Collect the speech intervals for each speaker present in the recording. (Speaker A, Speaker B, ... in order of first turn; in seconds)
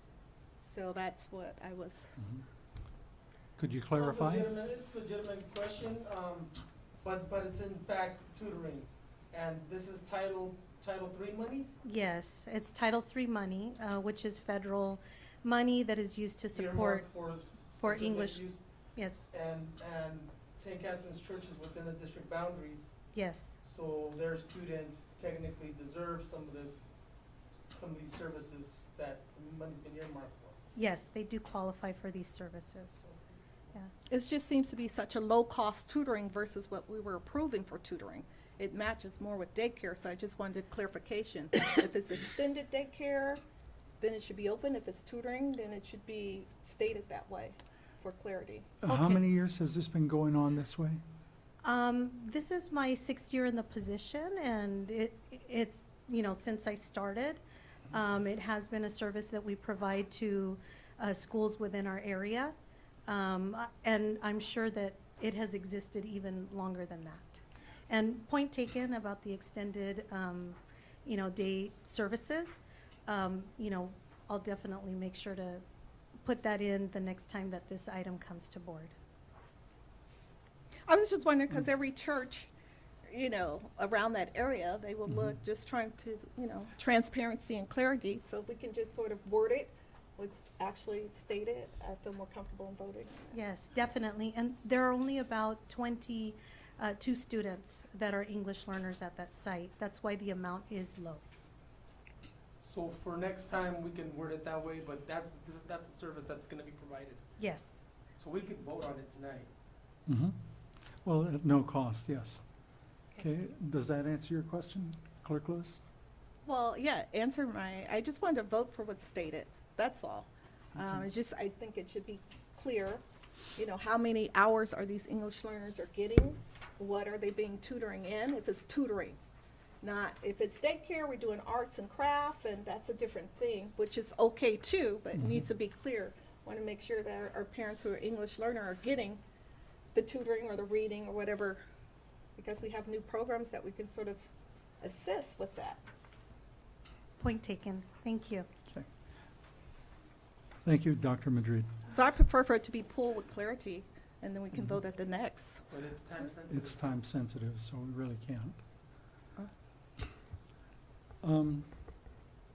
Speaker A: 0.6-2.1, 34.1-43.4, 44.0-48.7, 80.9-82.5, 83.1-93.4, 116.5-123.0, 123.6-129.2, 129.8-139.2, 139.9-141.6, 142.4-144.3, 144.8-145.8, 151.9-155.6
Speaker B: 2.2-2.4, 3.6-4.5, 48.8-51.0, 110.1-110.4, 111.0-112.4, 113.2-115.8, 135.2-135.4, 150.6-151.7, 156.5-158.6, 161.2-161.7
Speaker C: 4.0-6.5, 7.0-11.8, 16.5-18.6, 19.3-22.9, 23.7-26.8, 27.7-30.6, 102.6-107.2, 108.2-109.5, 155.7-156.8
Speaker D: 11.8-17.1, 17.8-18.4, 19.0-19.3, 23.1-23.6, 30.8-33.0, 48.9-49.2, 51.6-62.5, 63.1-75.6, 76.2-78.9, 93.3-101.2, 107.4-107.9, 147.2-148.5